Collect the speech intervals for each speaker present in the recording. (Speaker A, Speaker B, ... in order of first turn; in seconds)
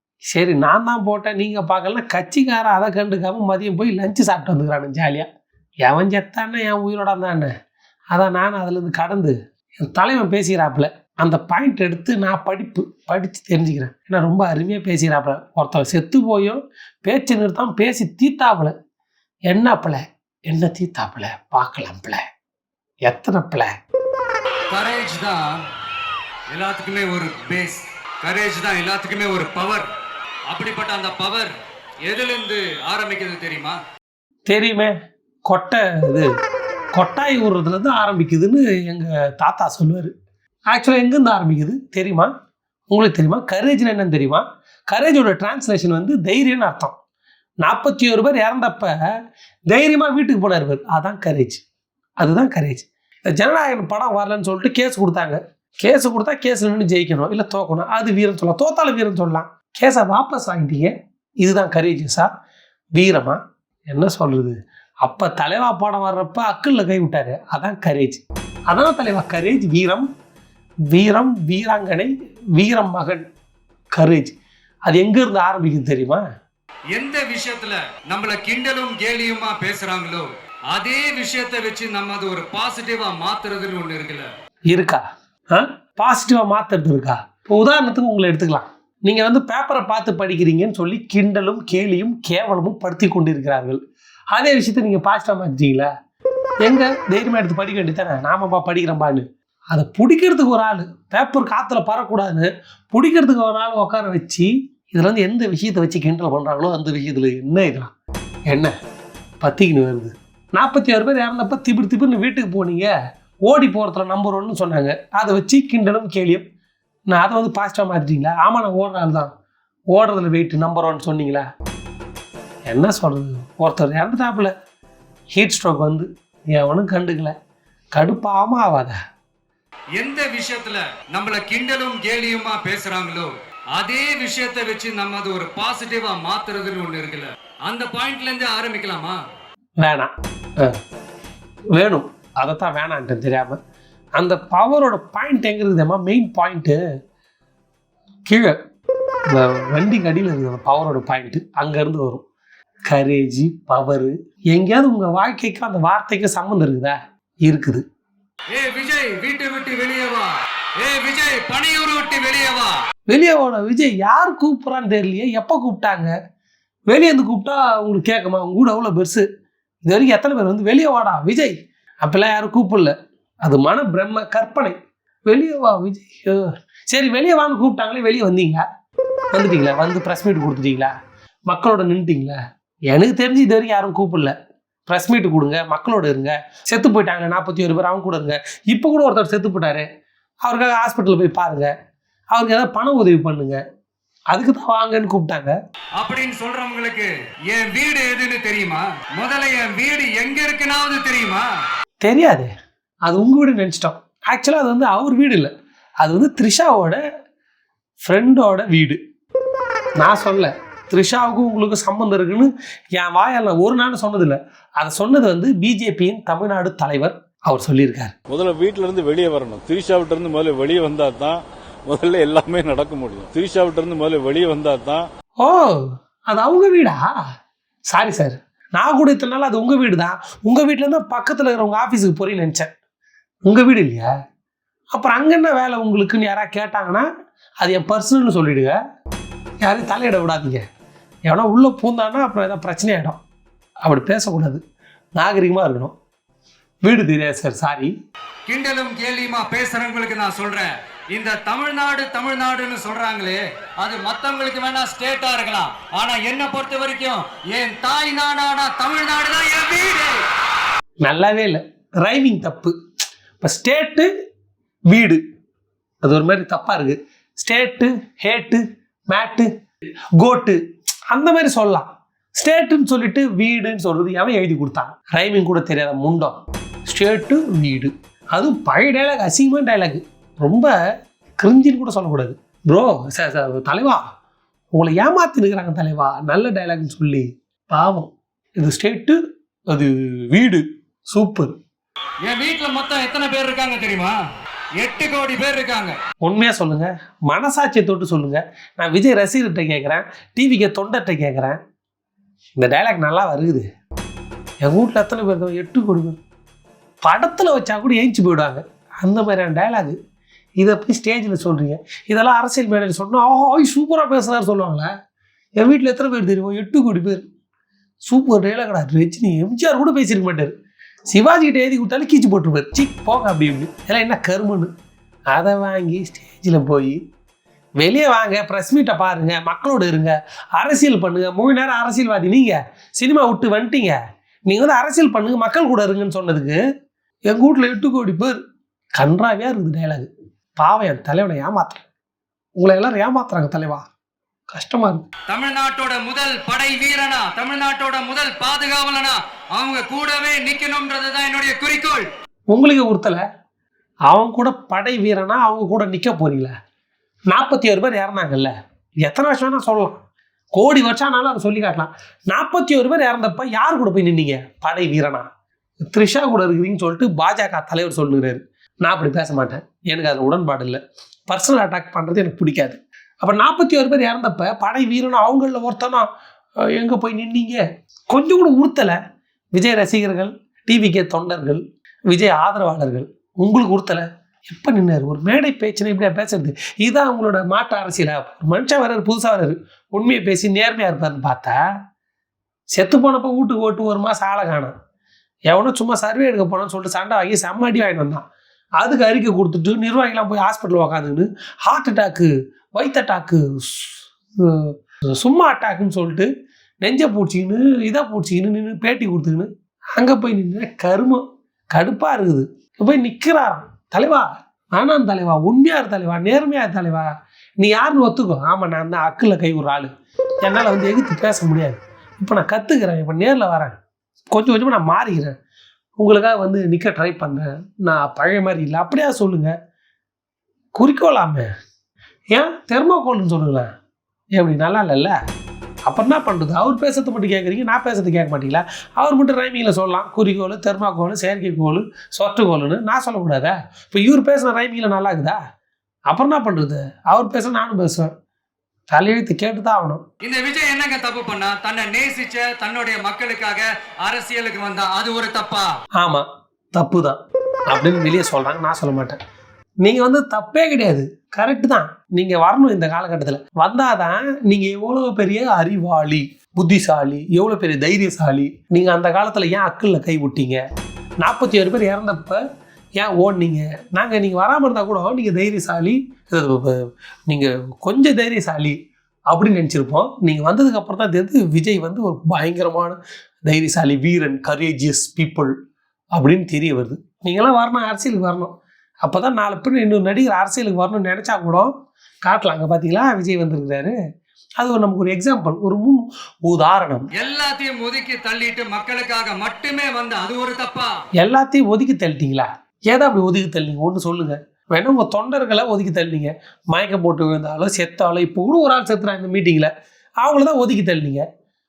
Speaker A: 0.3-5.3, 5.8-7.5, 8.1-18.7, 19.5-22.2, 23.1-23.7, 34.5-34.9, 35.5-36.3, 36.9-40.1, 40.7-42.3, 42.9-47.0, 47.6-49.0, 49.7-51.6, 52.2-62.3, 63.0-63.4, 63.9-70.1, 70.9-73.2, 73.9-74.3, 74.9-76.2, 84.7-85.0, 85.5-93.8, 94.3-95.9, 96.6-107.9, 108.5-108.7, 109.4-112.9, 113.5-116.4, 117.1-119.3, 119.9-121.5, 122.7-124.5, 125.3-127.3, 127.9-129.0, 139.8-140.8, 141.7-143.6, 144.2-146.8, 148.3-148.6, 149.3-152.2, 152.9-157.8, 163.1-166.1, 166.9-169.2, 169.9-178.7, 179.3-180.9, 181.5-182.4, 182.9-184.3, 184.9-189.9, 190.4-191.7, 192.3-193.6, 194.3-195.5, 202.0-202.5, 203.1-205.5, 206.0-207.0, 208.0-209.0, 210.0-218.1, 225.4-227.1, 227.9-232.7, 233.5-234.1, 234.9-237.1, 237.6-238.8, 239.6-240.6, 241.3-243.2, 243.8-244.6, 245.2-245.9, 246.8-247.9, 261.0-262.8, 263.4-264.1, 264.9-265.2, 266.0-269.5, 270.2-270.6, 271.1-271.9, 272.4-280.7, 281.4-284.0, 284.8-289.2, 289.7-291.6, 296.2-301.6, 302.6-303.7, 304.6-306.2, 307.0-310.0, 310.6-314.9, 315.6-317.2, 318.1-320.5, 321.1-324.7, 325.3-327.0, 327.8-336.6, 337.3-338.4, 339.0-341.9, 342.6-343.8, 344.5-345.1, 352.5-353.2, 354.1-356.5, 357.3-358.5, 359.0-360.0, 360.6-365.3, 365.9-376.1, 376.7-379.0, 379.6-391.6, 392.7-394.7, 395.5-398.2, 398.8-406.3, 406.8-417.1, 417.6-419.9, 420.4-423.8, 424.3-425.3, 426.0-429.5, 430.8-431.5, 432.3-433.7, 434.4-435.2, 435.9-445.4, 446.1-448.1, 448.9-450.0, 456.0-457.2, 457.7-459.2, 459.8-470.6, 471.2-472.4, 473.0-476.8, 477.3-478.8, 479.3-485.5, 486.1-491.7, 492.2-493.9, 494.6-497.1, 501.2-511.2
Speaker B: 24.7-25.5, 26.5-29.9, 30.5-31.5, 32.0-33.8, 76.9-84.3, 130.0-139.2, 158.5-162.8, 196.0-201.5, 248.5-260.2, 292.2-294.2, 294.8-295.9, 345.3-352.1, 450.2-455.7, 497.2-500.9
Speaker C: 218.3-225.1